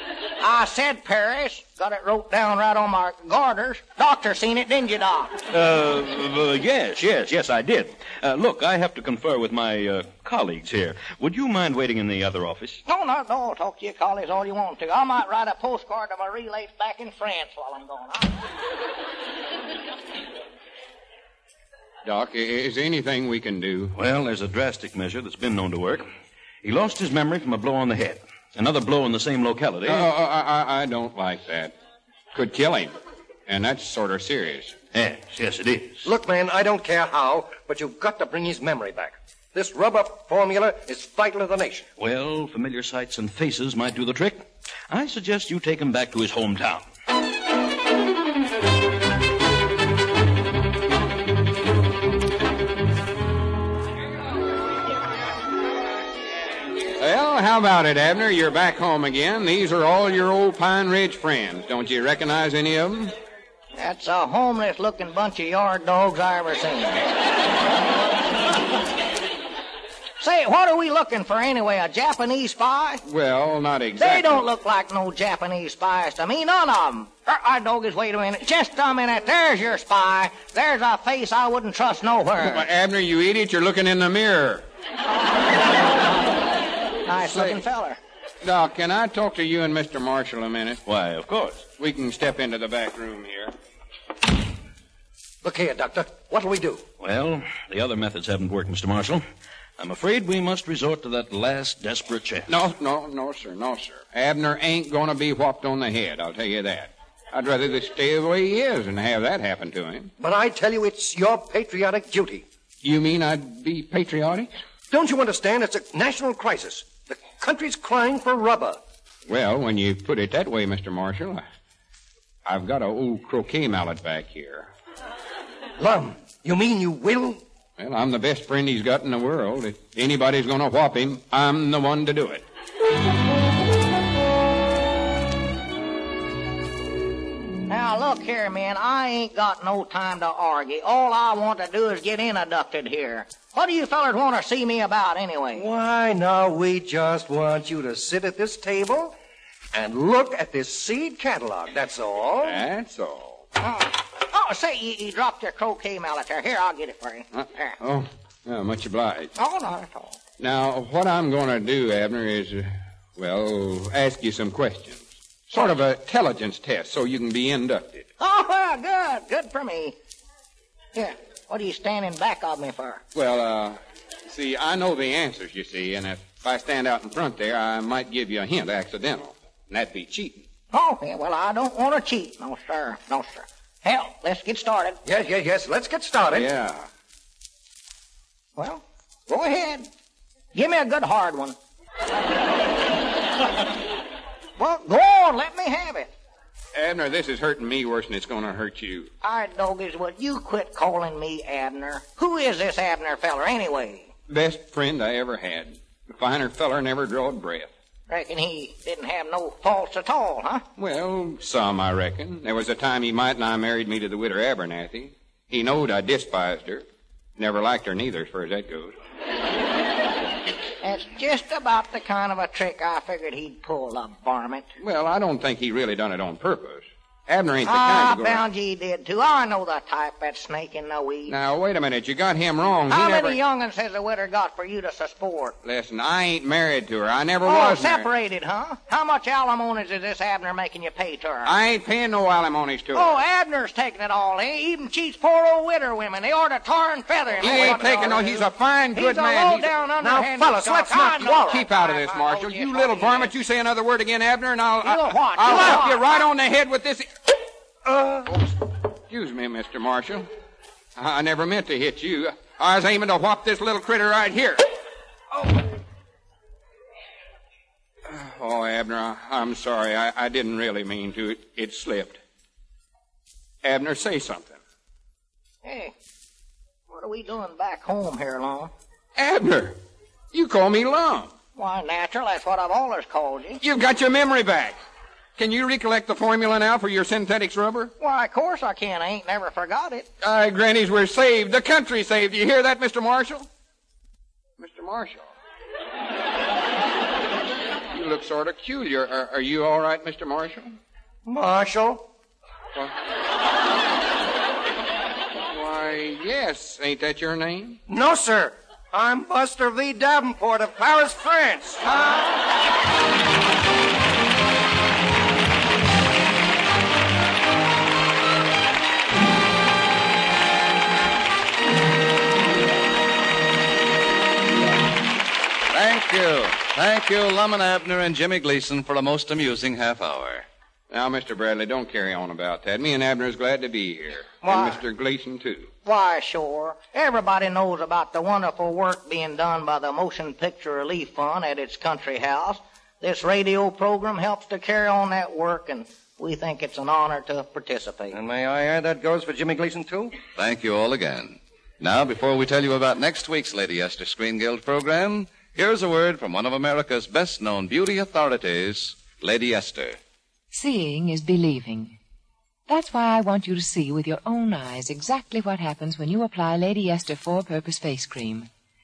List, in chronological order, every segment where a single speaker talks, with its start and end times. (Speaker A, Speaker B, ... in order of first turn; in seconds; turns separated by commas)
Speaker A: 0.4-5.4, Speaker B: 5.5-12.8, Speaker A: 12.9-18.3, Speaker C: 22.0-23.9, Speaker B: 23.9-26.0, Speaker B: 26.6-30.1, Speaker C: 29.9-31.7, Speaker C: 32.3-32.9, Speaker C: 33.5-34.8, Speaker B: 34.9-36.1, Speaker D: 36.0-41.9, Speaker B: 42.0-46.9, Speaker C: 57.0-63.1, Speaker A: 63.8-67.0, Speaker A: 70.2-73.0, Speaker C: 73.0-74.4, Speaker A: 74.0-82.6, Speaker C: 82.4-84.6, Speaker A: 85.7-86.2, Speaker A: 87.0-88.0, Speaker C: 87.2-87.6, Speaker C: 88.4-90.8, Speaker B: 90.8-91.6, Speaker C: 91.8-93.5, Speaker D: 95.4-96.8, Speaker B: 97.0-99.2, Speaker B: 99.8-102.5, Speaker C: 102.5-110.1, Speaker D: 110.2-112.4, Speaker C: 112.8-114.5, Speaker D: 114.9-118.8, Speaker C: 119.3-121.5, Speaker C: 122.5-124.7, Speaker D: 125.8-127.4, Speaker C: 127.8-132.4, Speaker A: 137.7-145.7, Speaker D: 145.5-149.1, Speaker D: 149.7-152.6, Speaker C: 152.4-153.4, Speaker A: 153.6-157.7, Speaker C: 157.3-159.3, Speaker A: 159.4-160.2, Speaker C: 160.4-168.1, Speaker A: 168.2-169.9, Speaker A: 170.9-173.0, Speaker C: 173.1-173.8, Speaker C: 174.3-180.4, Speaker A: 180.7-185.0, Speaker D: 185.0-186.5, Speaker C: 186.3-186.9, Speaker A: 188.6-189.9, Speaker A: 190.5-191.6, Speaker A: 194.6-196.1, Speaker C: 196.7-199.1, Speaker A: 199.2-204.1, Speaker C: 204.3-207.7, Speaker A: 208.1-210.6, Speaker C: 210.8-216.8, Speaker C: 217.4-218.9, Speaker A: 220.8-224.7, Speaker C: 224.8-228.4, Speaker A: 227.7-231.3, Speaker C: 231.3-233.4, Speaker A: 232.9-235.6, Speaker C: 235.6-238.1, Speaker A: 237.4-241.5, Speaker C: 241.4-243.2, Speaker A: 242.9-248.4, Speaker D: 247.4-248.2, Speaker C: 247.4-249.7, Speaker A: 248.9-253.3, Speaker D: 250.0-251.6, Speaker C: 251.2-257.1, Speaker A: 254.8-256.1, Speaker D: 255.4-255.9, Speaker D: 257.9-258.3, Speaker C: 259.1-260.3, Speaker C: 261.0-264.6, Speaker C: 268.1-272.2, Speaker C: 273.6-274.6, Speaker A: 275.6-275.9, Speaker A: 276.9-278.7, Speaker C: 279.1-279.8, Speaker C: 280.3-281.3, Speaker A: 281.6-283.6, Speaker C: 283.6-284.8, Speaker C: 285.4-287.9, Speaker A: 288.0-290.1, Speaker C: 290.2-293.5, Speaker C: 294.6-295.3, Speaker C: 297.9-300.8, Speaker D: 301.2-302.0, Speaker C: 305.5-307.8, Speaker D: 307.9-312.3, Speaker E: 325.7-330.4, Speaker C: 330.9-335.7, Speaker A: 334.4-334.8, Speaker A: 335.8-348.2, Speaker D: 348.1-350.1, Speaker E: 350.4-360.0, Speaker F: 360.5-362.0, Speaker F: 362.7-368.5